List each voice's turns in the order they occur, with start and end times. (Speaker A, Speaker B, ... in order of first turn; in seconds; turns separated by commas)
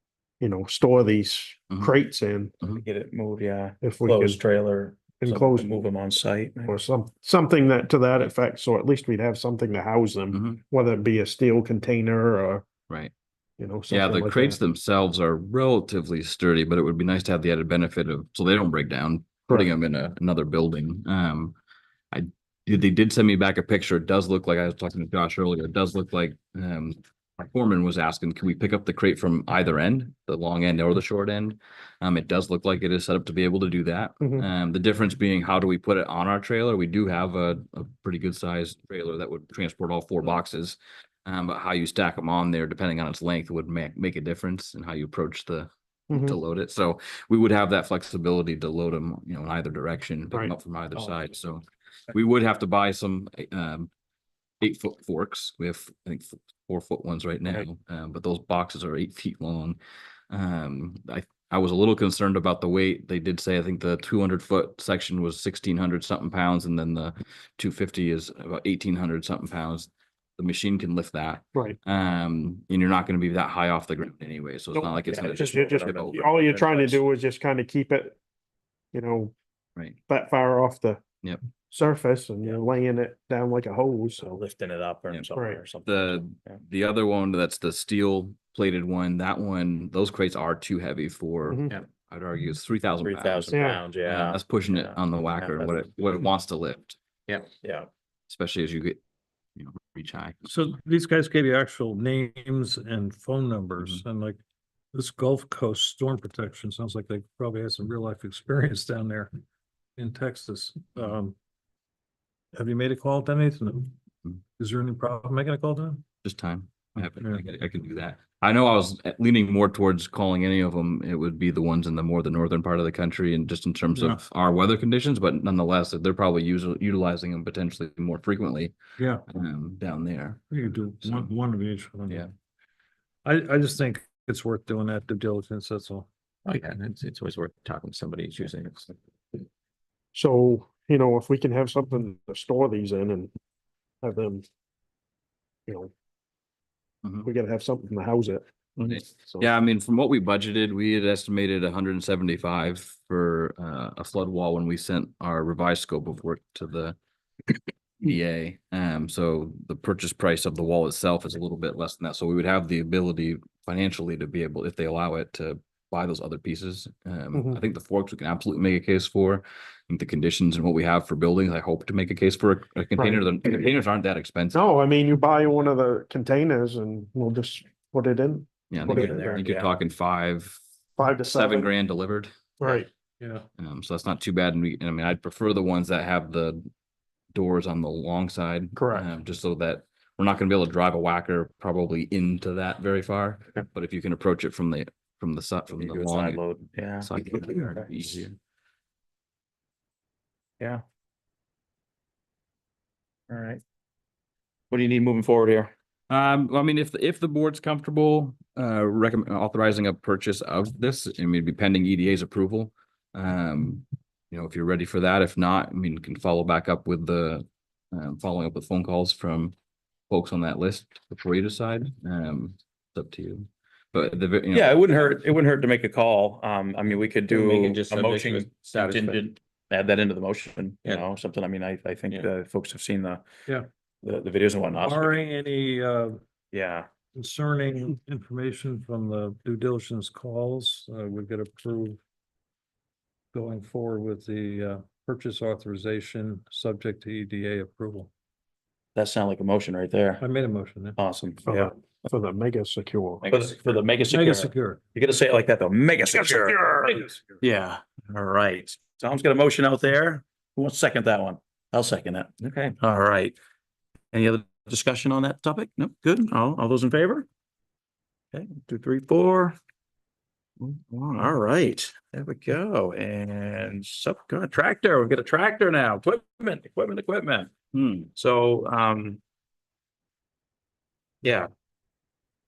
Speaker A: 0.4-2.5, Speaker B: 2.7-6.7, Speaker A: 3.8-4.4, Speaker A: 5.2-5.7, Speaker A: 6.7-12.6, Speaker C: 10.3-10.6, Speaker A: 13.6-14.6, Speaker C: 13.9-21.6, Speaker C: 22.1-53.9, Speaker A: 46.1-46.4, Speaker C: 54.6-59.8, Speaker C: 60.3-76.2, Speaker B: 75.0-77.0, Speaker A: 75.5-78.2, Speaker A: 78.9-79.3, Speaker A: 80.1-81.0, Speaker A: 81.7-84.4, Speaker B: 84.2-86.6, Speaker A: 85.3-85.6, Speaker C: 85.8-97.0, Speaker B: 93.0-95.8, Speaker A: 93.5-93.8, Speaker D: 97.3-97.5, Speaker B: 97.6-97.9, Speaker C: 98.3-99.0, Speaker C: 99.5-100.4, Speaker E: 100.4-104.4, Speaker E: 104.9-109.3, Speaker E: 110.0-111.3, Speaker E: 112.5-113.9, Speaker E: 114.6-116.0, Speaker C: 116.2-128.8, Speaker E: 117.1-117.4, Speaker E: 129.0-129.2, Speaker C: 129.3-131.3, Speaker E: 130.5-132.3, Speaker E: 133.2-136.1, Speaker D: 136.4-139.0, Speaker A: 140.1-143.3, Speaker A: 144.0-144.4, Speaker A: 145.7-145.9, Speaker A: 147.2-148.4, Speaker C: 148.9-156.9, Speaker C: 158.0-174.6, Speaker A: 167.3-167.6, Speaker A: 173.0-173.7, Speaker A: 174.5-179.5, Speaker C: 178.7-180.6, Speaker B: 178.8-179.7, Speaker A: 181.0-181.7, Speaker C: 181.2-182.7, Speaker A: 182.6-182.9, Speaker E: 183.2-183.4, Speaker C: 183.6-186.7, Speaker C: 187.3-196.4, Speaker A: 188.8-189.1, Speaker B: 195.7-198.2, Speaker C: 197.0-198.3, Speaker B: 203.3-203.6, Speaker B: 204.7-205.7, Speaker C: 206.1-219.5, Speaker C: 220.1-224.8, Speaker B: 224.5-233.2, Speaker D: 227.3-229.3, Speaker D: 230.8-231.1, Speaker B: 234.0-235.2, Speaker E: 234.8-236.2, Speaker B: 236.5-236.9, Speaker E: 237.1-242.0, Speaker E: 243.3-248.1, Speaker B: 248.9-250.2, Speaker E: 250.2-251.0, Speaker B: 251.0-251.7, Speaker A: 251.4-253.4, Speaker B: 253.2-263.3, Speaker E: 254.1-254.8, Speaker A: 256.1-257.1, Speaker D: 262.4-262.7, Speaker B: 264.1-267.2, Speaker B: 268.3-269.6, Speaker B: 270.6-277.5, Speaker C: 277.7-278.1, Speaker B: 278.1-279.2, Speaker B: 281.2-281.5